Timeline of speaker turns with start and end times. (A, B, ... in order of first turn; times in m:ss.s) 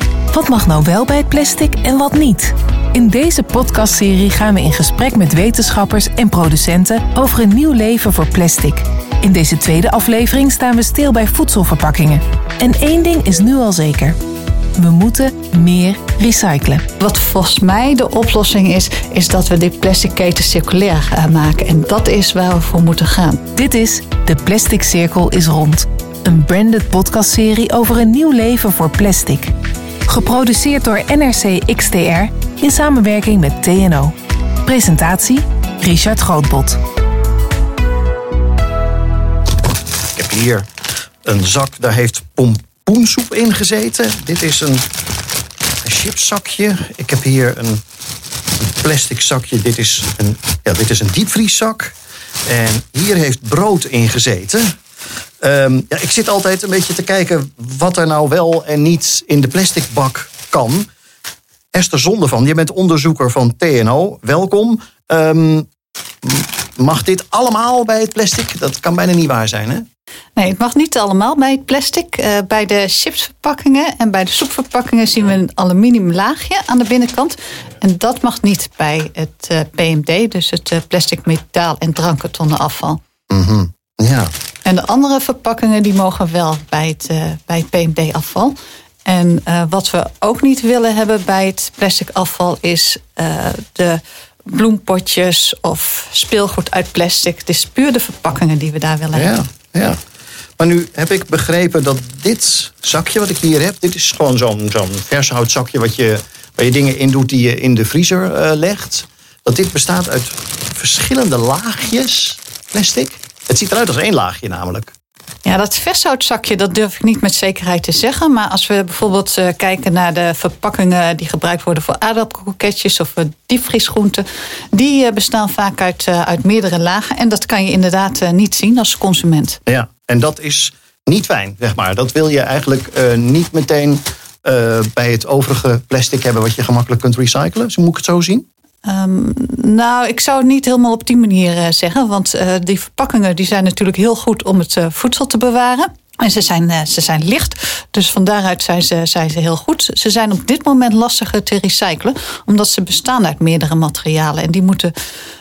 0:00.3-0:14.2 A
0:14.8-0:16.8 A
0:17.0-0:23.4 B
0:23.6-0:29.5 A
0:30.1-0:36.8 A
0:40.1-0:40.7 C
0:41.2-0:44.9 C
0:45.8-0:47.8 C
0:48.6-0:51.9 C
0:52.4-0:54.8 C
0:55.4-1:00.9 C
1:01.7-1:05.7 C
1:06.2-1:09.9 C
1:10.4-1:23.0 B
1:23.3-1:24.3 C
1:24.6-1:39.3 B
1:39.1-1:40.0 C
1:40.6-1:54.9 C
1:55.4-2:09.6 B
2:09.7-2:18.4 C
2:18.8-2:34.9 B